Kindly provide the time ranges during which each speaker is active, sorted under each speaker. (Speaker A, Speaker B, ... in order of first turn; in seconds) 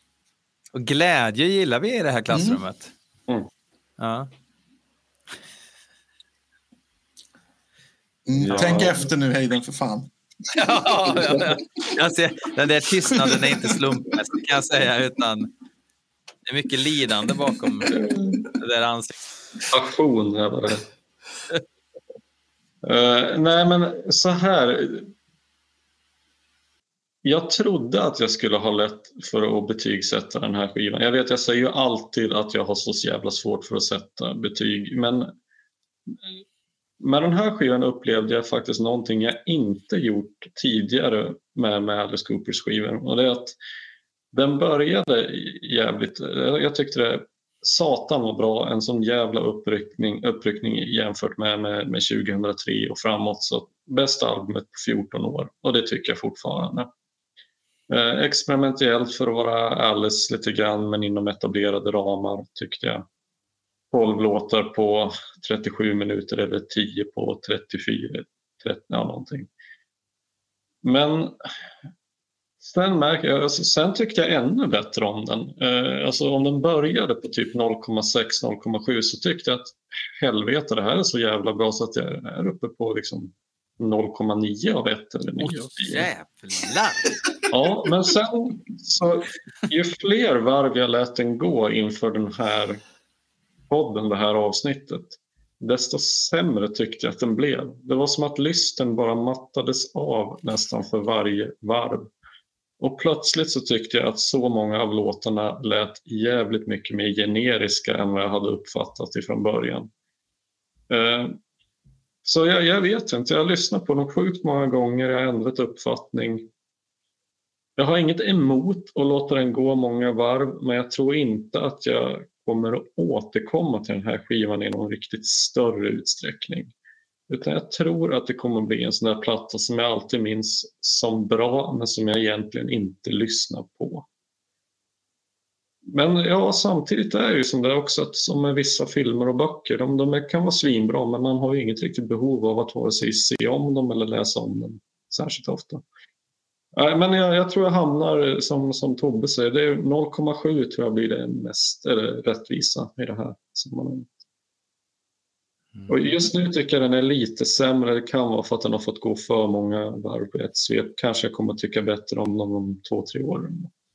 Speaker A: 0.7-2.9, 4.0-4.3, 10.5-15.5, 16.4-18.0, 18.6-19.1, 85.4-87.1, 155.7-156.1
Speaker B: 2.3-2.6, 8.2-10.1, 13.1-13.8
Speaker C: 8.4-9.1, 17.9-18.4, 19.7-20.8, 22.8-25.1, 27.2-35.3, 37.0-43.5, 44.3-56.9, 57.9-63.0, 63.9-69.5, 70.8-71.5, 72.6-86.1, 87.5-92.8, 93.7-102.1, 102.8-109.9, 110.9-111.4, 112.2-116.5, 117.8-126.7, 127.3-134.1, 135.9-145.8, 146.7-154.1, 155.9-163.7